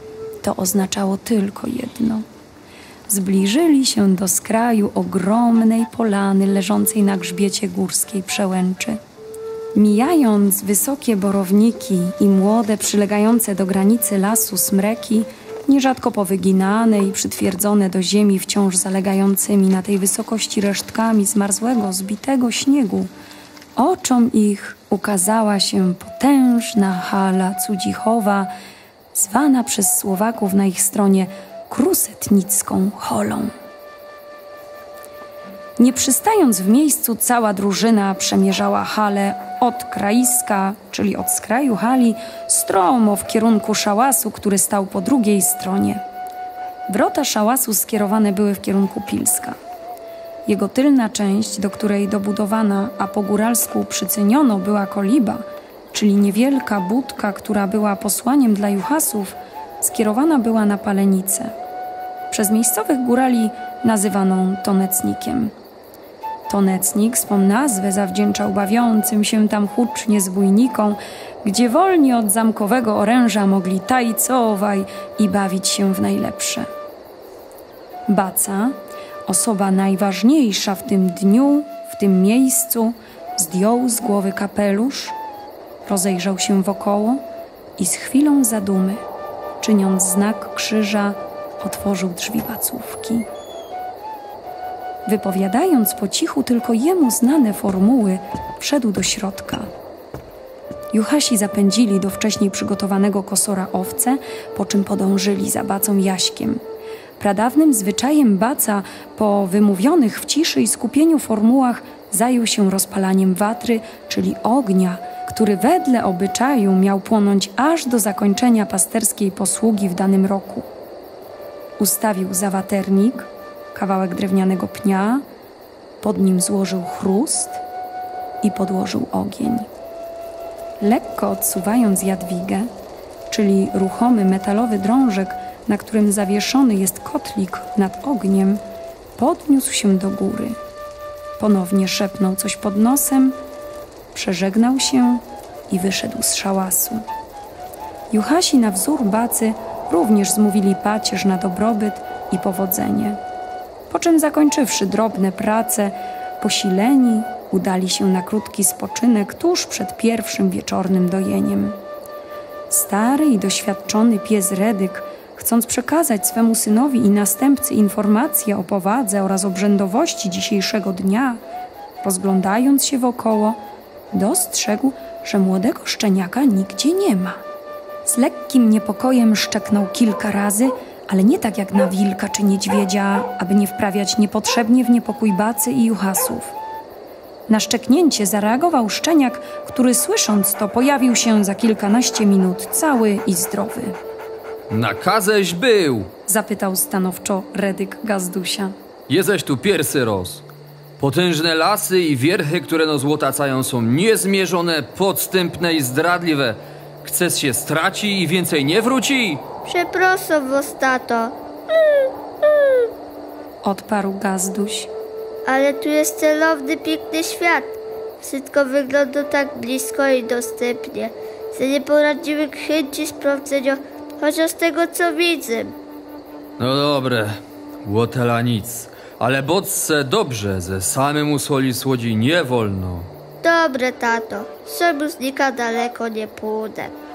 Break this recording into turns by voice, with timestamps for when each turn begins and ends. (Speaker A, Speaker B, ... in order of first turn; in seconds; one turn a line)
Speaker A: 0.4-2.2
Speaker A: 3.1-9.0
Speaker A: 9.8-23.1
Speaker A: 23.8-28.5
Speaker A: 29.1-33.5
Speaker A: 35.8-46.0
Speaker A: 46.9-49.6
Speaker A: 50.5-61.5
Speaker A: 62.3-65.5
Speaker A: 66.5-76.7
Speaker A: 78.1-78.8
Speaker A: 79.3-85.2
Speaker A: 85.9-87.2
Speaker A: 87.8-89.0
Speaker A: 89.6-93.3
Speaker A: 95.1-99.7
Speaker A: 100.9-106.6
Speaker A: 107.2-120.7
Speaker A: 121.8-125.2
Speaker A: 126.0-127.6
Speaker A: 128.4-129.7
Speaker A: 130.8-132.7
Speaker A: 133.3-138.6
Speaker A: 139.2-140.6
Speaker A: 141.4-143.4
Speaker A: 144.1-147.0
Speaker A: 148.1-153.2
Speaker A: 153.9-161.8
Speaker A: 162.7-171.4
Speaker A: 172.0-173.6
Speaker A: 174.1-177.4
Speaker A: 178.1-186.6
Speaker A: 187.5-194.0
Speaker B: 194.7-196.1
Speaker A: 196.3-198.7
Speaker B: 199.1-200.4
Speaker B: 201.0-209.4
Speaker C: 209.7-211.3
Speaker A: 213.6-214.9
Speaker C: 215.5-225.7
Speaker B: 226.6-233.1
Speaker C: 233.4-236.9